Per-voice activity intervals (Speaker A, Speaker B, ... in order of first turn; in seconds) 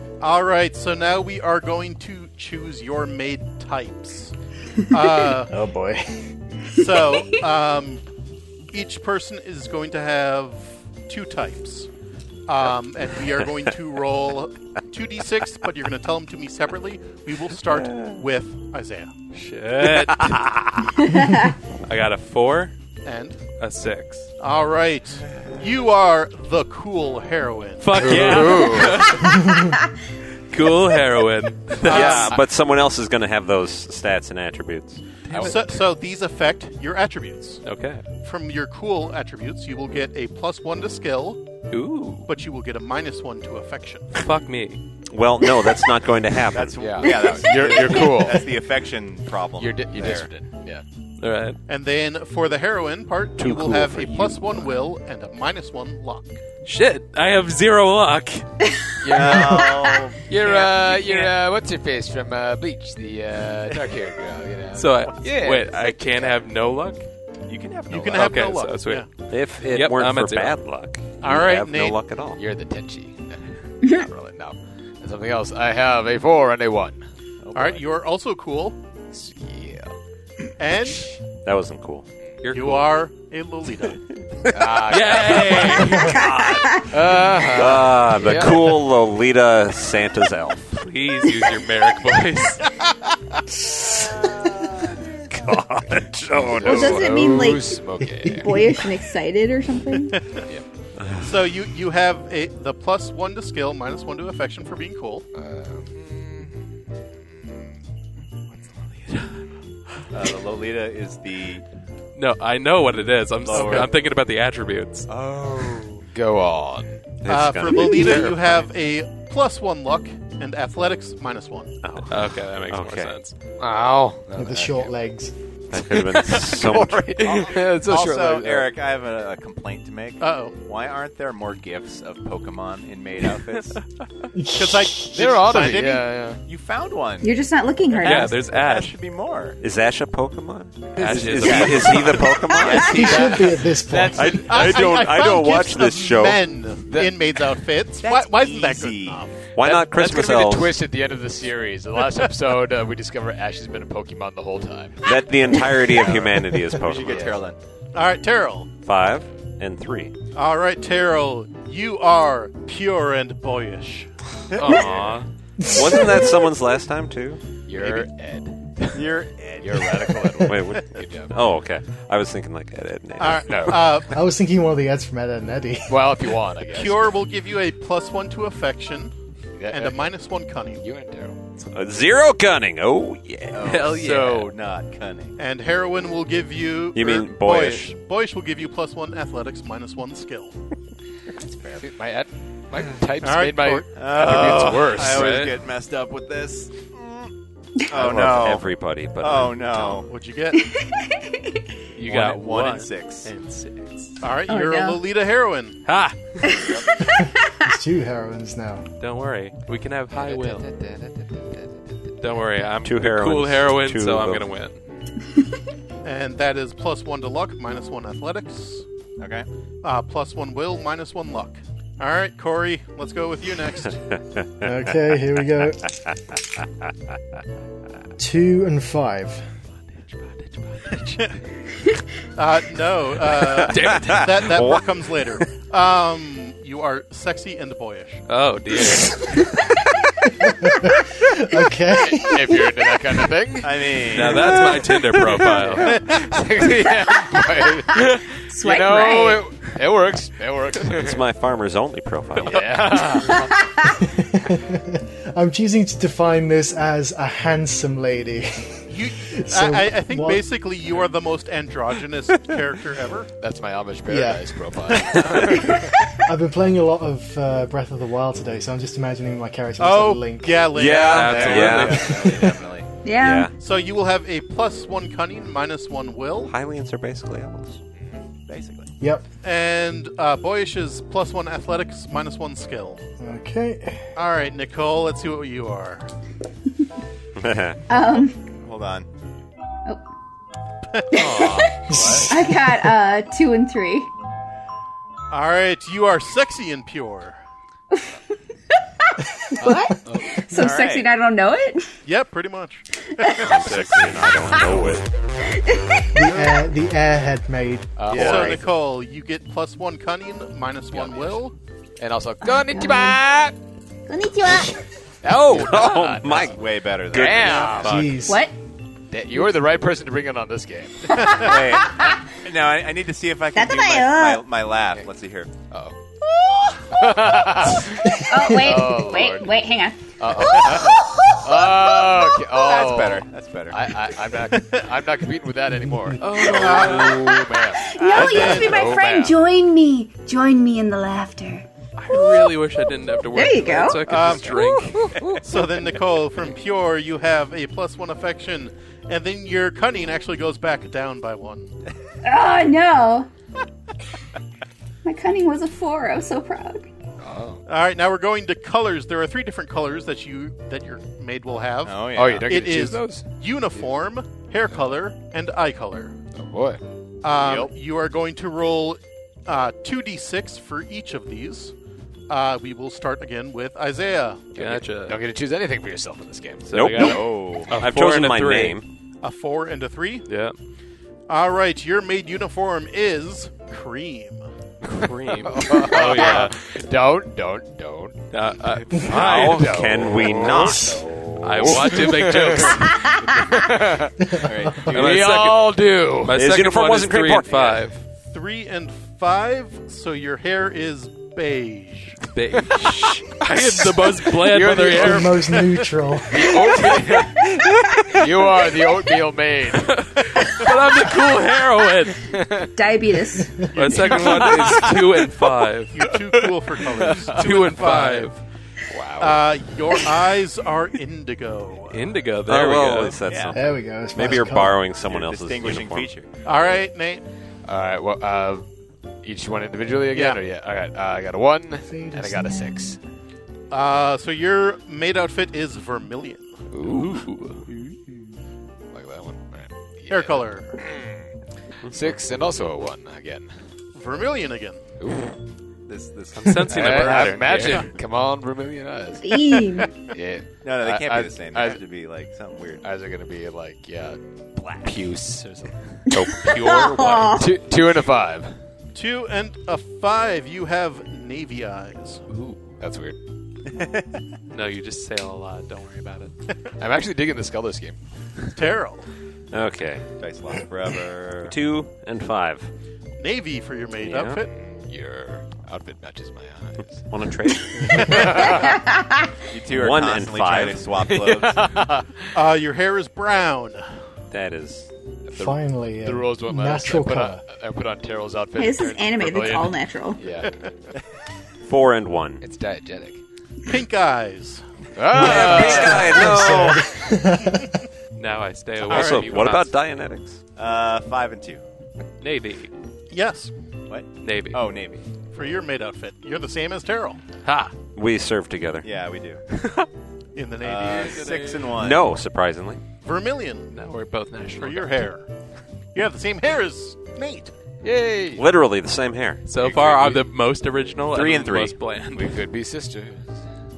Speaker A: 0.2-4.3, 4.9-5.5, 6.7-8.0, 8.7-11.9, 12.5-19.1, 23.1-23.4, 24.4-29.1, 31.8-32.4, 35.3-37.6, 38.2-41.4, 42.3-44.2, 51.7-56.4, 67.9-69.1, 71.2-72.0, 77.5-78.8, 80.6-81.1, 82.5-84.0, 100.1-100.4, 101.2-105.3, 113.5-113.9, 117.3-121.8, 130.2-130.6, 134.5-136.1, 144.4-149.5, 157.9-158.7, 160.3-164.1, 173.2-174.2, 176.7-179.1, 179.7-180.8, 185.4-190.6, 193.2-194.1, 200.1-200.7, 204.2-205.8, 216.0-218.8, 219.8-224.0, 231.0-231.3, 232.4-238.2, 258.9-263.3, 269.8-271.8, 273.6-276.5, 279.4-283.0, 284.2-286.1, 290.9-291.5, 295.3-297.4, 302.1-303.9, 308.1-311.6, 336.5-337.4, 338.1-338.9, 344.1-351.7, 357.7-366.1, 367.2-371.7, 372.3-374.6, 379.2-380.3, 381.3-384.5, 398.3-402.2, 413.7-414.8, 415.9-418.3, 419.2-422.1, 426.4-427.2, 430.1-430.4, 433.7-436.6, 440.1-440.7, 443.9-444.8, 458.9-462.2, 468.6-469.1, 473.2-474.5, 482.3-483.9, 493.6-494.6, 495.2-495.8, 498.9-499.5, 503.1-503.5, 505.3-507.2, 510.4-511.3, 513.0-513.8, 514.6-515.3, 516.0-517.5
Speaker B: 5.5-6.1, 29.2-29.7, 98.2-98.8, 124.3-125.3, 134.3-135.4, 142.9-144.5, 165.6-166.3, 174.1-176.2, 207.2-208.8, 224.6-225.9, 228.2-229.4, 240.4-242.4, 254.1-260.5, 264.1-264.5, 266.2-270.8, 279.0-279.3, 283.2-284.1, 291.9-292.9, 306.1-308.1, 317.8-318.5, 390.5-391.0, 405.0-406.5, 423.5-424.9, 431.9-432.8, 485.4-487.4, 495.9-497.7
Speaker C: 17.7-18.2, 19.9-20.9, 31.9-35.0, 45.1-46.8, 69.3-72.4, 81.5-82.1, 86.0-90.8, 95.3-97.1, 101.0-101.3, 117.2-118.5, 121.8-123.2, 125.7-127.2, 139.6-143.1, 144.1-146.4, 149.5-150.8, 155.0-157.3, 158.8-160.1, 165.6-167.4, 170.5-173.9, 181.7-183.7, 186.9-187.9, 198.0-200.0, 212.8-214.4, 224.1-224.7, 233.6-235.0, 250.9-252.9, 270.7-272.0, 273.2-273.5, 276.5-277.8, 287.4-287.8, 303.4-305.1, 308.2-308.5, 315.6-316.6, 317.1-317.9, 376.7-378.9, 389.1-391.1, 396.3-397.9, 422.5-426.1, 469.5-470.0, 471.5-472.7, 474.0-474.4, 477.1-478.3, 479.7-480.8, 484.3-484.9, 491.7-492.4, 495.1-497.0, 498.9-500.4, 507.9-508.9, 511.7-512.8, 518.3-519.5
Speaker D: 19.3-20.5, 21.8-22.7, 23.6-24.3, 27.8-29.4, 30.5-32.2, 37.6-38.0, 41.7-42.3, 44.1-44.8, 47.6-48.3, 51.2-51.6, 56.6-58.5, 64.7-67.1, 68.1-70.6, 82.4-82.9, 84.9-86.2, 90.8-92.7, 112.2-115.1, 118.2-118.7, 122.1-123.3, 127.4-127.7, 138.0-138.9, 141.0-142.3, 164.6-165.3, 183.6-184.5, 194.2-195.5, 202.0-204.2, 205.9-206.4, 209.0-210.7, 212.2-214.8, 230.1-231.2, 233.7-234.3, 238.3-239.5, 244.1-246.0, 271.0-272.6, 291.1-292.1, 303.6-304.7, 317.5-318.2, 336.2-337.2, 342.0-345.1, 374.6-375.2, 376.7-378.8, 380.3-380.6, 384.9-386.6, 388.3-389.9, 391.4-393.2, 394.9-398.0, 402.3-405.6, 409.9-412.3, 413.7-416.0, 417.3-418.4, 421.9-423.2, 436.8-437.6, 446.4-447.9, 456.1-457.5, 464.5-466.3, 498.2-499.7, 502.2-502.7, 504.2-504.7, 507.4-507.7, 509.5-509.9, 510.9-511.6, 513.7-515.0, 519.5-522.4
Speaker E: 21.0-21.5, 47.0-47.7, 86.0-86.9, 96.6-100.2, 137.2-138.4, 200.6-201.5, 204.5-205.0, 206.4-207.5, 248.5-249.4, 253.3-254.0, 273.0-273.5, 287.9-288.4, 291.1-291.7, 292.3-294.1, 299.1-301.9, 303.2-303.5, 305.5-306.2, 312.4-313.2, 314.1-314.8, 318.3-318.5, 321.1-322.1, 323.5-324.4, 328.1-332.3, 337.8-342.6, 343.3-344.0, 352.2-353.3, 355.0-356.9, 412.8-413.6, 449.2-449.9, 456.1-457.5, 478.5-479.3, 488.6-490.2
Speaker F: 27.9-29.1, 31.9-32.4, 35.3-35.8, 46.8-48.5, 49.6-50.8, 59.0-65.8, 72.3-77.0, 79.1-79.9, 84.5-86.0, 86.9-88.8, 96.3-98.5, 105.3-106.5, 116.1-117.1, 123.6-124.9, 125.8-128.8, 135.1-136.4, 143.0-144.7, 146.9-147.2, 149.6-155.1, 167.7-171.4, 173.5-174.0, 175.9-177.1, 179.6-180.1, 180.8-181.4, 191.8-195.4, 210.1-211.7, 241.9-251.2, 252.4-253.6, 263.4-265.9, 271.1-272.0, 291.9-292.2, 299.6-300.4, 308.0-308.7, 312.0-313.6, 315.2-316.6, 317.1-318.1, 319.1-321.3, 325.7-326.0, 326.9-329.5, 330.2-339.4, 357.2-357.6, 362.1-363.3, 366.3-366.8, 374.6-377.0, 385.0-388.2, 389.0-394.3, 394.8-396.5, 404.3-405.6, 406.3-410.0, 412.3-412.7, 414.1-415.2, 416.8-417.5, 418.9-419.5, 427.6-428.7, 429.2-433.0, 436.7-437.2, 438.9-441.3, 441.9-443.5, 445.0-445.3, 446.6-449.4, 450.1-451.8, 452.8-454.2, 454.8-455.8, 457.4-458.6, 462.7-463.2, 466.8-468.0, 474.5-477.1, 477.9-478.8, 481.0-482.3, 485.3-490.6, 492.4-493.2, 495.0-496.5, 517.8-518.5, 522.1-523.3
Speaker G: 46.5-50.3, 59.1-61.3, 65.8-66.3, 67.5-68.7, 77.4-77.8, 110.1-111.6, 113.4-114.0, 115.1-116.0, 127.2-133.8, 136.5-137.4, 137.9-139.6, 140.9-143.4, 148.0-149.3, 156.0-157.6, 164.5-165.2, 167.8-168.1, 168.9-170.2, 183.5-185.4, 191.4-191.9, 193.9-197.3, 197.9-200.1, 202.0-203.3, 206.5-206.9, 219.2-219.5, 243.6-244.5, 271.3-272.9, 278.5-278.9, 288.6-289.1, 300.6-301.1, 316.4-317.8, 321.4-325.5, 330.6-330.9, 332.5-333.8, 338.0-338.8, 361.9-362.5, 367.4-367.7, 377.0-377.7, 394.4-395.4, 423.2-423.6, 425.0-426.3, 445.9-447.6, 450.6-452.8, 454.6-454.9, 463.7-464.2, 470.2-471.6, 479.5-481.7, 500.6-501.6, 503.9-505.0, 508.8-509.4, 510.6-512.1, 521.1-521.7